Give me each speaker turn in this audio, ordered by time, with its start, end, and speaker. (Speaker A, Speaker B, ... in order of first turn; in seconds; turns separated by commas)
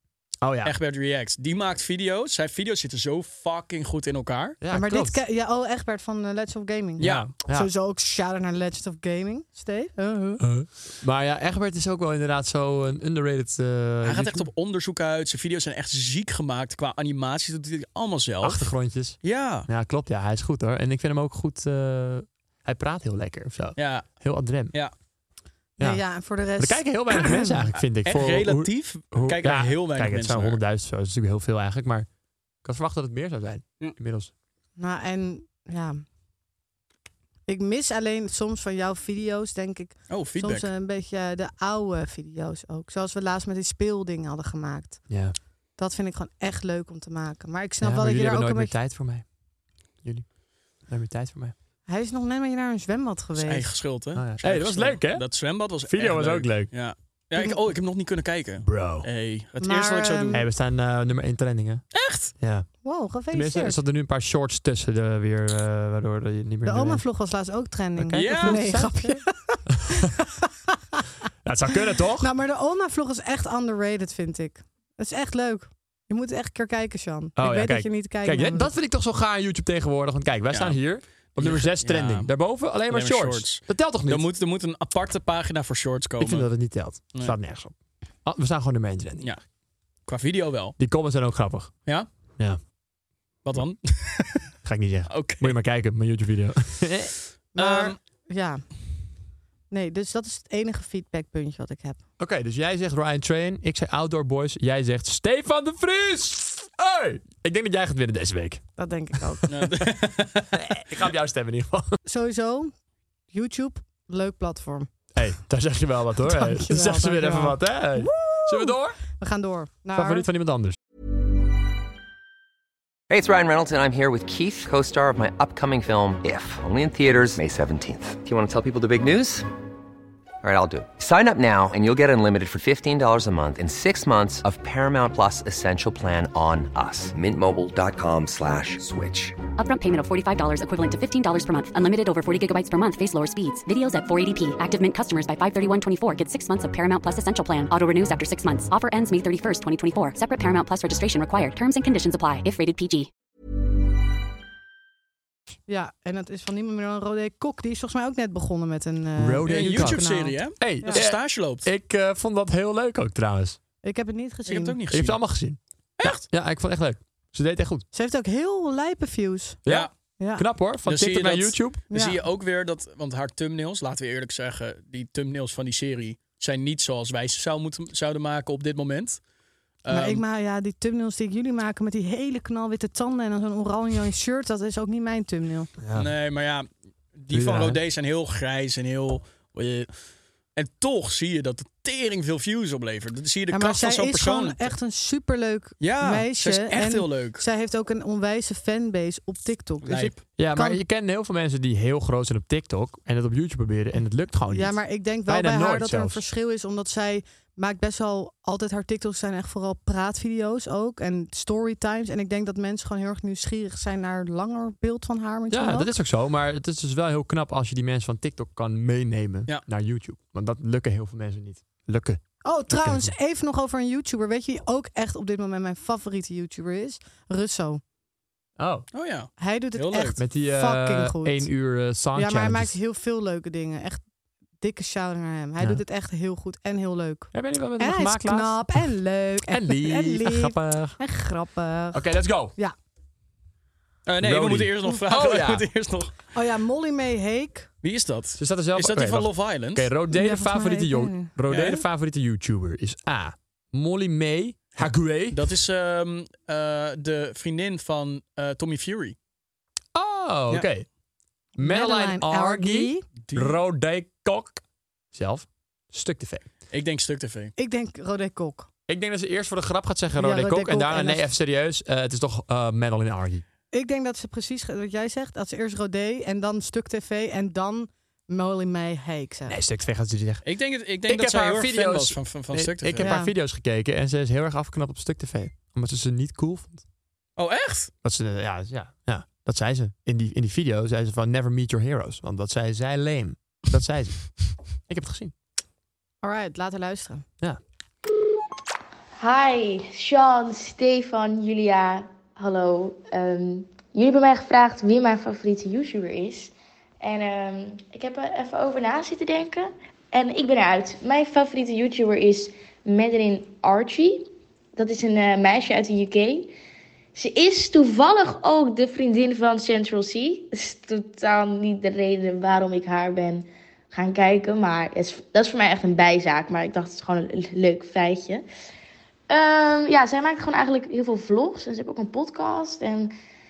Speaker A: 0.4-0.7, Speaker B: 0.6-4.6, Speaker A: 4.6-5.2, Speaker C: 4.7-10.4, Speaker B: 7.0-7.3, Speaker A: 7.0-7.7, Speaker A: 10.4-14.5, Speaker B: 14.0-18.7, Speaker A: 18.4-24.8, Speaker B: 19.2-19.7, Speaker B: 23.8-24.1, Speaker A: 25.8-26.0, Speaker C: 25.8-27.6, Speaker A: 26.6-32.1, Speaker B: 27.8-30.6, Speaker A: 32.6-34.3, Speaker C: 34.8-36.0, Speaker C: 37.5-45.1, Speaker B: 40.1-40.7, Speaker A: 45.1-45.3, Speaker C: 45.8-48.7, Speaker A: 47.8-49.2, Speaker A: 50.0-50.3, Speaker A: 50.9-51.5, Speaker C: 51.9-53.7, Speaker B: 53.4-60.4, Speaker A: 54.1-55.2, Speaker A: 55.8-56.7, Speaker A: 58.6-59.1, Speaker C: 59.6-60.4, Speaker A: 60.3-61.8, Speaker B: 61.9-62.3, Speaker A: 62.4-62.7, Speaker C: 62.8-63.8, Speaker A: 63.3-67.0, Speaker C: 66.7-71.0, Speaker A: 68.0-69.2, Speaker B: 68.1-68.6, Speaker A: 69.7-70.1, Speaker A: 71.4-72.3, Speaker C: 72.2-78.7, Speaker A: 77.4-84.3, Speaker B: 80.5-80.8, Speaker B: 81.3-82.3, Speaker B: 82.9-86.5, Speaker A: 86.2-87.7, Speaker A: 88.2-89.3, Speaker B: 90.0-90.8, Speaker A: 90.8-91.8, Speaker B: 93.4-94.5, Speaker A: 94.6-97.1, Speaker B: 95.1-95.5, Speaker C: 97.5-98.6, Speaker B: 97.5-98.0, Speaker C: 99.7-102.0, Speaker A: 102.2-108.6, Speaker C: 108.8-109.5, Speaker A: 109.2-109.9, Speaker B: 109.5-110.5, Speaker A: 110.5-111.9, Speaker C: 112.0-112.7, Speaker C: 113.3-114.9, Speaker A: 115.1-119.0, Speaker C: 116.2-120.3, Speaker A: 119.9-120.8, Speaker D: 123.1-129.5, Speaker D: 130.4-139.4, Speaker E: 139.6-153.1, Speaker C: 155.7-161.0, Speaker A: 159.2-160.0, Speaker B: 159.5-161.7, Speaker A: 160.6-163.6, Speaker C: 163.8-164.8, Speaker B: 164.4-165.2, Speaker A: 164.9-167.8, Speaker B: 166.0-166.2, Speaker C: 167.9-169.6, Speaker A: 169.6-171.8, Speaker B: 169.7-169.9, Speaker C: 170.2-170.4, Speaker B: 170.8-179.2, Speaker C: 171.9-172.2, Speaker B: 179.8-180.2, Speaker C: 179.9-185.7, Speaker A: 185.8-186.1, Speaker B: 185.9-189.9, Speaker A: 187.3-187.8, Speaker B: 190.5-194.8, Speaker C: 193.5-200.8, Speaker B: 195.8-197.4, Speaker B: 199.8-200.2, Speaker A: 200.4-206.2, Speaker C: 204.5-215.9, Speaker A: 215.5-223.1, Speaker C: 222.4-227.8, Speaker A: 228.6-228.9, Speaker B: 228.9-230.2, Speaker C: 229.4-231.5, Speaker A: 230.2-232.8, Speaker C: 232.1-234.0, Speaker C: 234.6-242.0, Speaker A: 237.3-238.9, Speaker A: 239.5-241.0, Speaker A: 241.9-242.5, Speaker B: 244.1-246.2, Speaker A: 244.2-245.7, Speaker C: 246.3-247.7, Speaker B: 247.8-249.9, Speaker A: 248.4-255.5, Speaker C: 250.1-251.3, Speaker B: 251.5-251.8, Speaker B: 255.3-259.1, Speaker A: 259.9-260.9, Speaker C: 261.6-263.0, Speaker A: 261.6-264.6, Speaker B: 263.3-263.6, Speaker A: 265.1-266.4, Speaker B: 266.7-267.5, Speaker C: 267.6-268.7, Speaker A: 268.9-273.4, Speaker C: 270.2-271.3, Speaker C: 273.7-279.6, Speaker A: 279.5-280.4, Speaker B: 280.4-283.1, Speaker A: 281.1-286.8, Speaker C: 283.0-283.3, Speaker B: 287.4-287.9, Speaker A: 288.0-294.3, Speaker A: 294.9-295.3, Speaker C: 296.2-297.2, Speaker F: 299.2-316.5, Speaker F: 317.1-328.4, Speaker F: 329.3-333.1